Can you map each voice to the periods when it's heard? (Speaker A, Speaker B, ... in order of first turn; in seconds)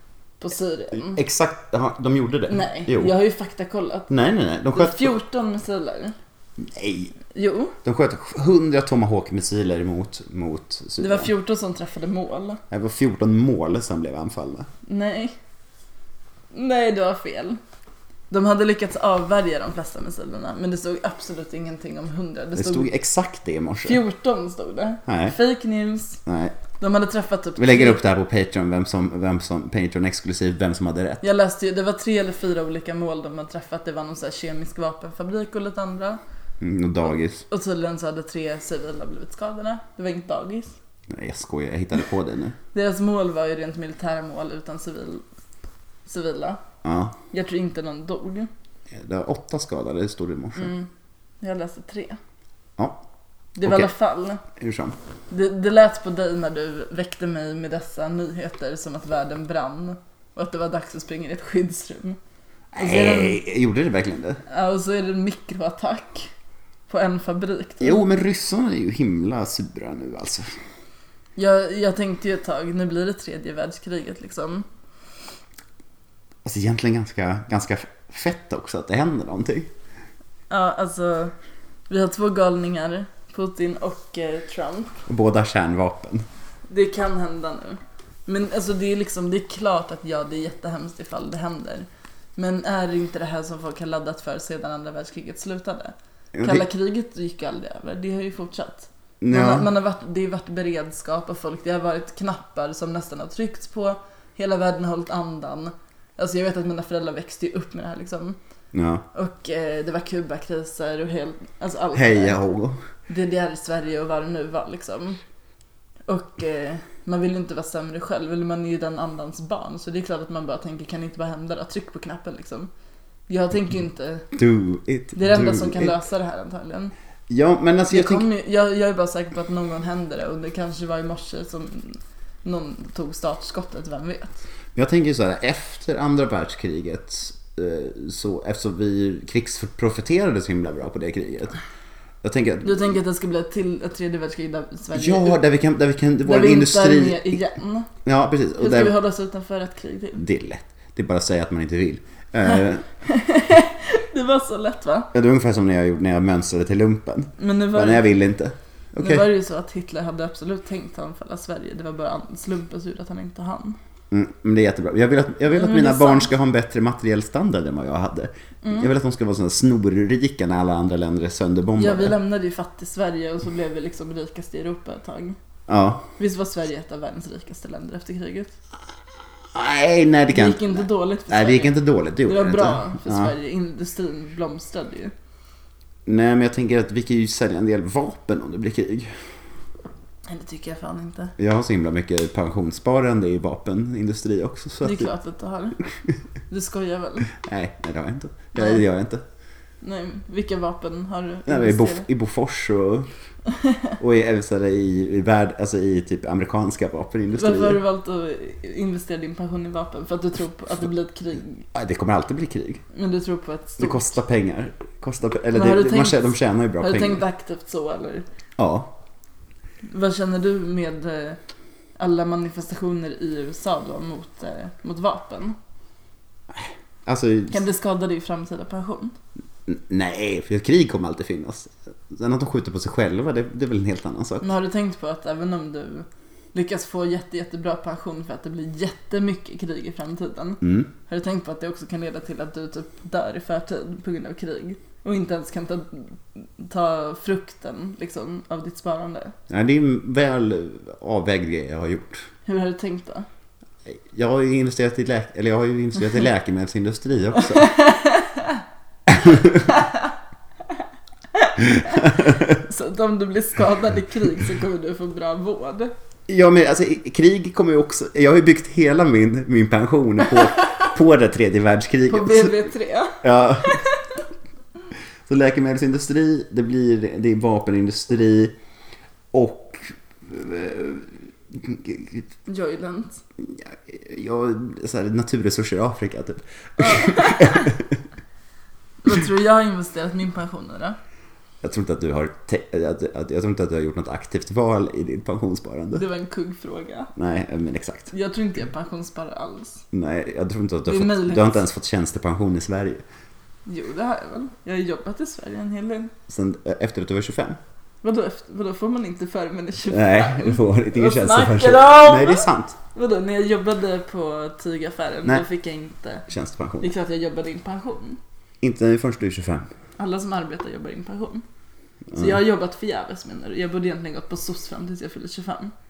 Speaker A: 0.4-1.2, 2.5-4.1, 4.7-6.2, 7.3-7.8, 11.0-12.6, 14.9-15.4, 16.5-17.6, 18.3-22.9, 23.8-26.2, 26.8-28.0, 31.2-36.2, 37.5-40.7, 42.7-45.2, 46.1-46.6, 47.3-48.5, 50.6-50.9, 51.4-52.2, 53.6-54.4, 55.3-62.2, 62.8-63.4, 64.5-66.3, 66.9-68.0, 71.4-74.7, 80.5-81.3, 81.9-85.0, 86.7-108.4, 109.1-112.4, 113.1-115.2, 116.1-122.7, 123.3-124.3, 125.2-126.9, 127.9-134.4, 142.6-145.4, 146.2-147.9, 148.6-150.2, 153.1-155.1, 157.4-158.1, 159.0-163.8, 165.5-166.3, 168.6-168.9, 171.8-175.4, 176.2-178.5, 180.3-185.1, 190.3-191.3, 194.8-195.8, 196.5-197.3, 198.6-198.8, 199.8-202.1, 203.6-203.9, 207.3-211.7, 212.9-214.1, 215.5-218.2, 219.8-221.4, 222.0-225.6, 227.5-229.2, 234.4-249.4, 252.4-253.3, 257.5-258.6, 259.7-260.1, 261.3-265.9, 272.1-273.9, 282.5-283.2, 286.8-287.7, 289.0-291.0, 295.9-297.1, 298.1-299.9, 300.9-301.6, 303.7-306.1, 308.0-316.3, 316.8-318.2, 320.0-321.4, 322.1-325.7
Speaker B: 0.9-3.1, 4.1-5.2, 6.6-7.2, 7.8-11.3, 12.7-14.7, 22.6-24.0, 25.1-25.4, 26.3-26.6, 27.6-31.2, 36.6-37.5, 41.1-42.6, 46.8-47.2, 48.9-50.7, 53.6-53.9, 54.5-55.0, 62.7-64.4, 67.8-70.5, 76.5-79.7, 85.1-86.3, 96.3-96.7, 99.2-99.7, 108.7-109.0, 111.9-112.8, 124.3-126.0, 127.3-128.3, 134.8-141.6, 142.2-142.9, 144.9-147.4, 148.1-148.9, 150.2-152.9, 155.1-159.3, 164.1-172.2, 175.7-176.1, 179.5-183.3, 186.1-189.3, 191.4-195.1, 197.3-199.2, 201.5-203.1, 204.0-207.8, 211.7-212.8, 213.8-217.2, 218.6-218.9, 226.5-227.6, 229.7-234.5, 240.6-240.9, 249.5-252.3, 253.9-257.7, 259.1-259.6, 266.3-272.6, 273.2-273.9, 275.3-278.6, 279.3-282.3, 283.4-288.0, 291.6-296.0, 297.1-298.1, 299.9-303.0, 306.3-307.6, 309.9-312.8, 316.3-316.9, 318.6-319.7